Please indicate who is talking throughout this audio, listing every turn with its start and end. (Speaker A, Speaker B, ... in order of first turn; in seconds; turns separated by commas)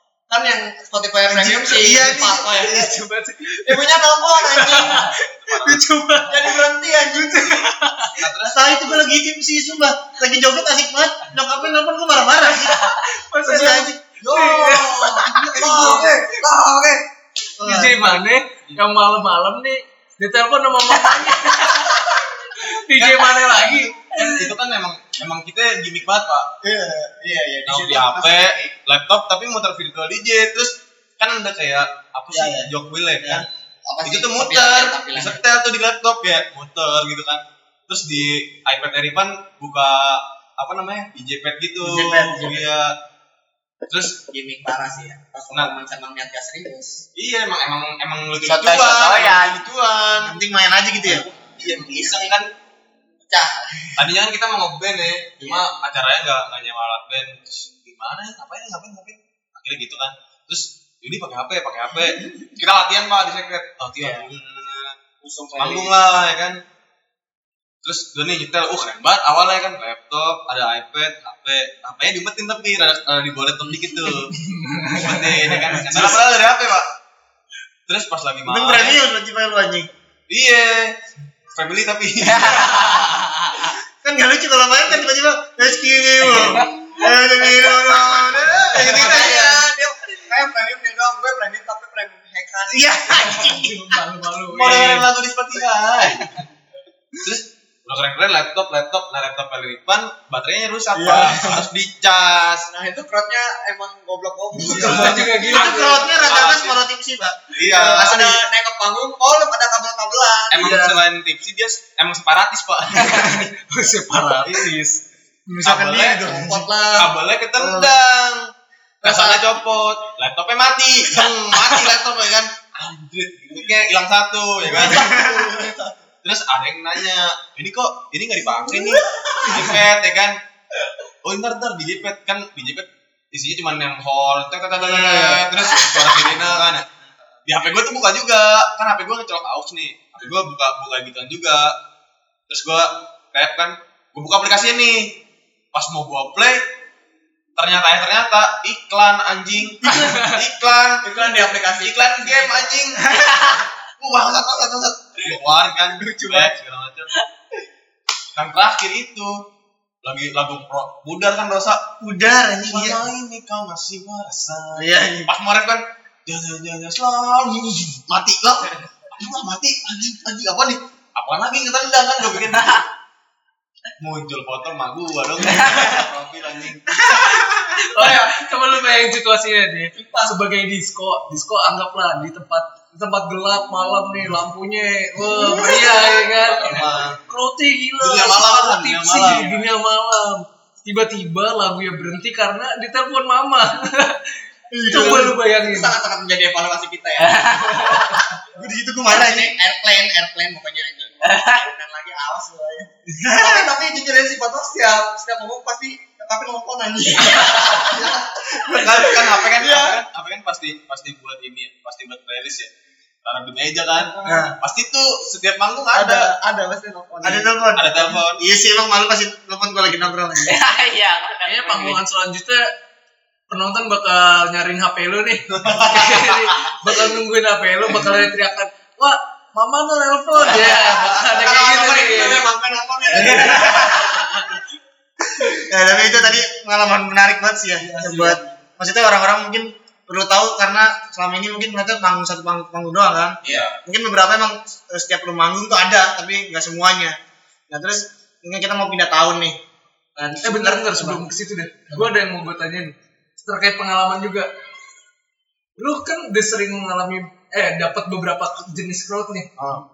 Speaker A: 0.3-2.9, Speaker B: 1.3-3.0, Speaker C: 2.7-6.7, Speaker A: 3.6-5.1, Speaker D: 5.1-5.9, Speaker A: 6.3-7.7, Speaker C: 7.3-8.3, Speaker D: 8.2-9.0, Speaker B: 8.4-16.5, Speaker C: 12.5-16.2, Speaker A: 14.2-16.9, Speaker B: 17.6-18.2, Speaker C: 17.6-24.4, Speaker D: 23.0-26.5, Speaker B: 26.6-27.1, Speaker A: 26.7-28.7, Speaker D: 27.7-33.5, Speaker B: 32.3-33.5, Speaker A: 33.9-35.4, Speaker D: 34.0-43.0, Speaker B: 41.8-42.7, Speaker D: 43.9-44.2, Speaker A: 44.3-47.0, Speaker D: 47.2-50.4, Speaker E: 48.5-49.6, Speaker B: 50.2-51.3, Speaker D: 51.2-52.5, Speaker A: 51.7-52.3, Speaker A: 53.3-54.0, Speaker D: 54.0-65.0, Speaker A: 65.2-66.0, Speaker D: 65.6-66.6, Speaker D: 67.8-74.4, Speaker C: 74.4-75.5, Speaker D: 74.9-76.9, Speaker D: 77.9-79.0, Speaker B: 78.5-79.9, Speaker D: 80.3-81.0, Speaker D: 81.5-83.2, Speaker E: 82.2-83.7, Speaker B: 83.6-89.6, Speaker E: 86.4-86.7, Speaker A: 88.5-93.2, Speaker D: 88.8-89.3, Speaker B: 92.7-94.0, Speaker C: 93.1-95.1, Speaker D: 94.5-96.4, Speaker D: 97.2-102.7, Speaker B: 100.9-101.7, Speaker A: 102.7-105.6, Speaker B: 104.6-108.4, Speaker C: 104.7-106.1, Speaker D: 105.6-106.8, Speaker D: 107.5-108.2, Speaker A: 107.6-110.8, Speaker D: 110.5-113.5, Speaker B: 110.6-111.0, Speaker C: 113.0-115.0, Speaker D: 114.4-114.8, Speaker B: 115.5-116.7, Speaker D: 115.6-116.3, Speaker A: 116.2-117.1, Speaker D: 117.0-118.5, Speaker B: 117.6-117.9, Speaker A: 119.0-119.5, Speaker D: 119.0-125.5, Speaker B: 124.7-125.7, Speaker A: 125.3-125.8, Speaker D: 126.2-130.4, Speaker D: 131.2-136.9, Speaker B: 134.8-135.6, Speaker D: 137.5-141.8, Speaker D: 142.5-145.2, Speaker D: 145.7-146.6, Speaker D: 147.6-157.1, Speaker C: 149.9-150.4, Speaker A: 151.0-152.7, Speaker B: 153.1-153.6, Speaker A: 156.1-156.5, Speaker D: 158.3-159.4, Speaker D: 160.0-161.9, Speaker B: 162.0-163.0, Speaker D: 162.6-172.9, Speaker B: 164.8-165.3, Speaker D: 174.0-177.0, Speaker B: 177.1-177.7, Speaker C: 177.8-194.2, Speaker A: 178.0-178.4, Speaker A: 179.9-180.4, Speaker B: 185.3-186.0, Speaker D: 186.1-187.2, Speaker D: 188.0-189.6, Speaker B: 194.7-195.3, Speaker C: 194.8-196.0, Speaker A: 194.9-198.3, Speaker E: 197.2-198.2, Speaker B: 198.4-199.5, Speaker A: 199.1-210.0, Speaker E: 201.2-201.6, Speaker B: 203.1-203.7, Speaker C: 207.2-207.7, Speaker D: 208.7-212.7, Speaker D: 213.2-216.3, Speaker A: 214.1-214.5, Speaker B: 214.3-214.6, Speaker A: 215.9-217.6, Speaker B: 217.2-220.6, Speaker D: 217.8-218.5, Speaker E: 220.4-222.0, Speaker C: 221.4-222.7, Speaker C: 223.5-232.4, Speaker D: 225.6-226.7, Speaker A: 230.5-234.3, Speaker B: 233.1-234.1, Speaker D: 233.2-233.9, Speaker C: 233.8-234.6, Speaker B: 235.6-247.2, Speaker A: 237.8-238.5, Speaker D: 243.4-243.8, Speaker B: 247.7-249.6, Speaker B: 250.2-251.3, Speaker C: 250.4-254.5, Speaker C: 255.8-259.5